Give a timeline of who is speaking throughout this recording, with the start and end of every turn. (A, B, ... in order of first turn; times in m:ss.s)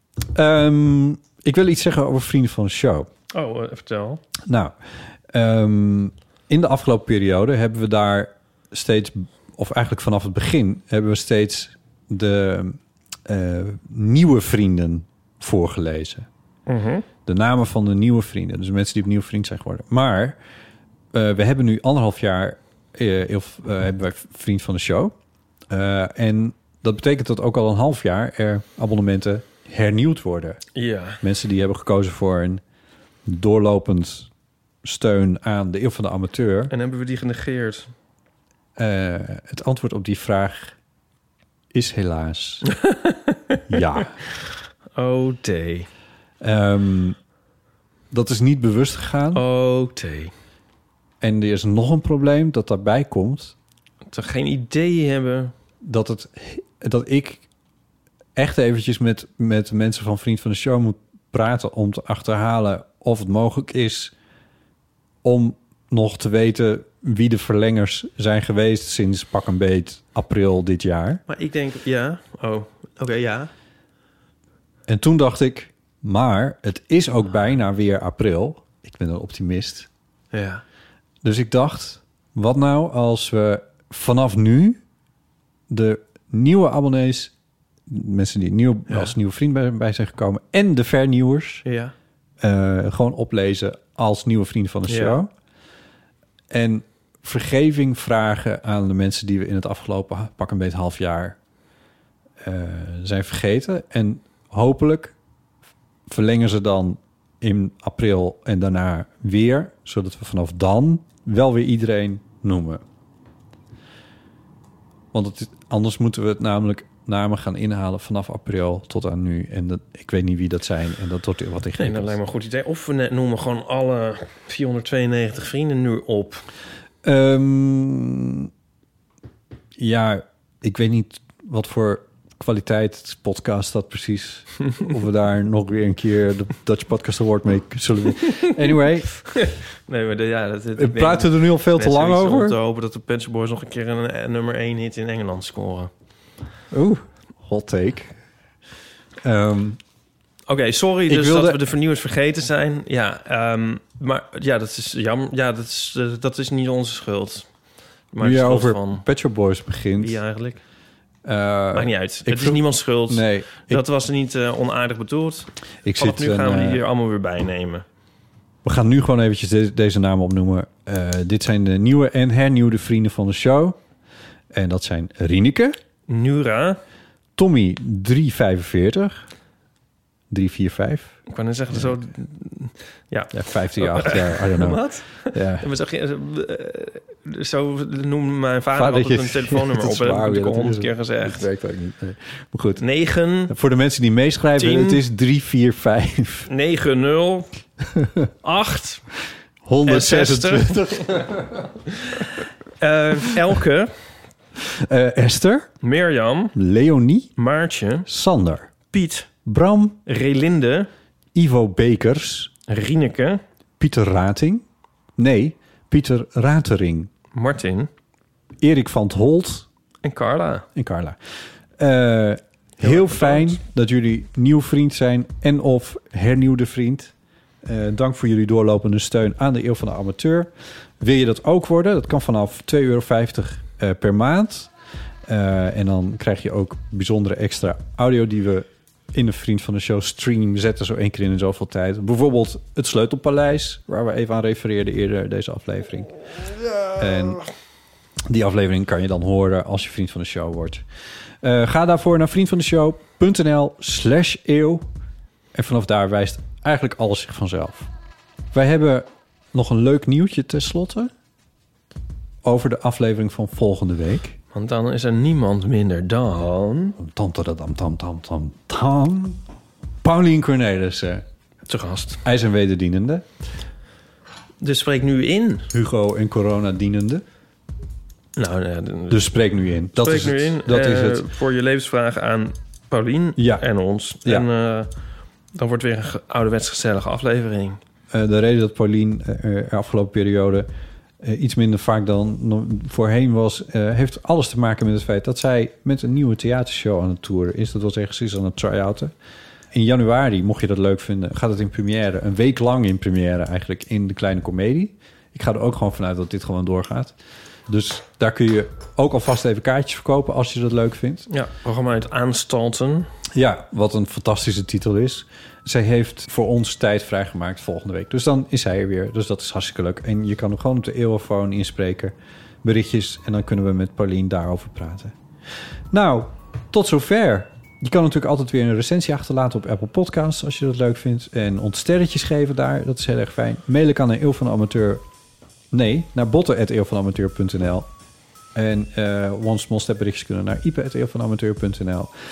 0:00.3-0:03.1 A
0:03.3-0:04.2 B
0:04.4-0:04.7 A
0:05.3-0:16.3 A
0:16.7-0:17.1 B
0:17.2-0:20.4 A
0:21.1-0:25.1 A
0:25.7-0:30.6 A
0:30.7-0:31.2 B
0:31.2-0:32.6 A
0:33.2-0:34.3 A
0:34.8-0:36.7 A
0:36.7-0:37.9 B
0:38.8-0:40.8 A
0:41.7-0:42.6 A
0:42.8-0:43.6 B
0:43.7-0:44.2 A
0:45.0-0:45.9 B
0:46.4-0:47.2 A
0:48.1-0:49.4 A
0:49.3-0:50.3 B
0:51.2-0:53.6 A
0:54.1-0:55.5 B
0:55.8-0:57.4 A
0:58.4-1:04.1 A
1:05.2-1:11.2 A
1:11.3-1:13.5 B
1:14.9-1:19.9 A
1:20.3-1:20.6 B
1:21.2-1:24.8 A
1:25.7-1:27.3 A
1:27.9-1:31.6 A
1:28.9-1:29.1 B
1:31.6-1:31.9 B
1:32.4-1:35.3 A
1:34.9-1:35.2 B
1:36.5-1:41.4 A
1:42.4-1:45.2 A
1:46.1-1:52.8 A
1:55.1-2:02.2 A
2:01.8-2:06.4 B
2:07.0-2:08.5 A
2:09.8-2:19.1 A
2:19.2-2:25.9 B
2:20.8-2:22.6 A
2:26.7-2:28.2 A
2:29.2-2:29.8 A
2:30.5-2:37.5 B
2:31.1-2:31.6 A
2:38.1-2:39.0 B
2:38.2-2:40.2 A
2:40.0-2:40.6 B
2:41.2-2:43.8 A
2:41.7-2:47.8 B
2:45.8-2:46.8 A
2:48.6-2:53.8 A
2:54.5-2:55.8 A
2:56.1-2:56.8 B
2:57.4-2:59.2 A
3:00.3-3:01.2 A
3:01.3-3:11.4 B
3:03.3-3:05.6 A
3:08.7-3:12.8 A
3:12.8-3:13.5 B
3:13.5-3:16.5 A
3:14.6-3:15.0 B
3:16.5-3:17.5 B
3:18.4-3:19.0 B
3:19.6-3:21.7 A
3:19.8-3:21.2 B
3:22.0-3:23.9 B
3:24.6-3:25.7 A
3:25.8-3:26.5 B
3:26.5-3:27.3 A
3:27.4-3:28.1 B
3:28.0-3:28.7 A
3:28.9-3:29.3 B
3:29.4-3:30.0 A
3:30.0-3:30.9 B
3:31.3-3:32.5 A
3:32.7-3:33.4 B
3:33.8-3:34.6 A
3:35.2-3:37.1 A
3:37.3-3:37.9 B
3:38.6-3:39.6 A
3:40.0-3:40.6 B
3:40.7-3:41.2 A
3:41.8-3:47.1 A
3:42.8-3:43.6 B
3:47.6-3:54.7 A
3:55.2-4:06.1 A
4:06.9-4:07.4 A
4:08.3-4:10.8 A
4:11.4-4:14.9 A
4:15.5-4:17.9 A
4:18.5-4:21.1 A
4:22.4-4:24.4 A
4:24.5-4:27.0 B
4:27.0-4:29.4 A
4:30.0-4:31.2 A
4:31.7-4:32.2 B
4:32.2-4:33.2 A
4:34.6-4:35.7 B
4:35.7-4:37.2 A
4:38.4-4:39.2 B
4:39.1-4:41.2 A
4:39.9-4:44.9 B
4:43.4-4:43.6 A
4:45.5-4:47.8 B
4:48.1-4:50.7 A
4:51.2-4:59.1 A
4:59.7-5:07.2 A
5:07.7-5:11.3 A
5:11.3-5:13.1 B
5:13.3-5:25.1 A
5:25.9-5:35.0 A
5:35.7-5:37.9 A
5:38.5-5:42.1 A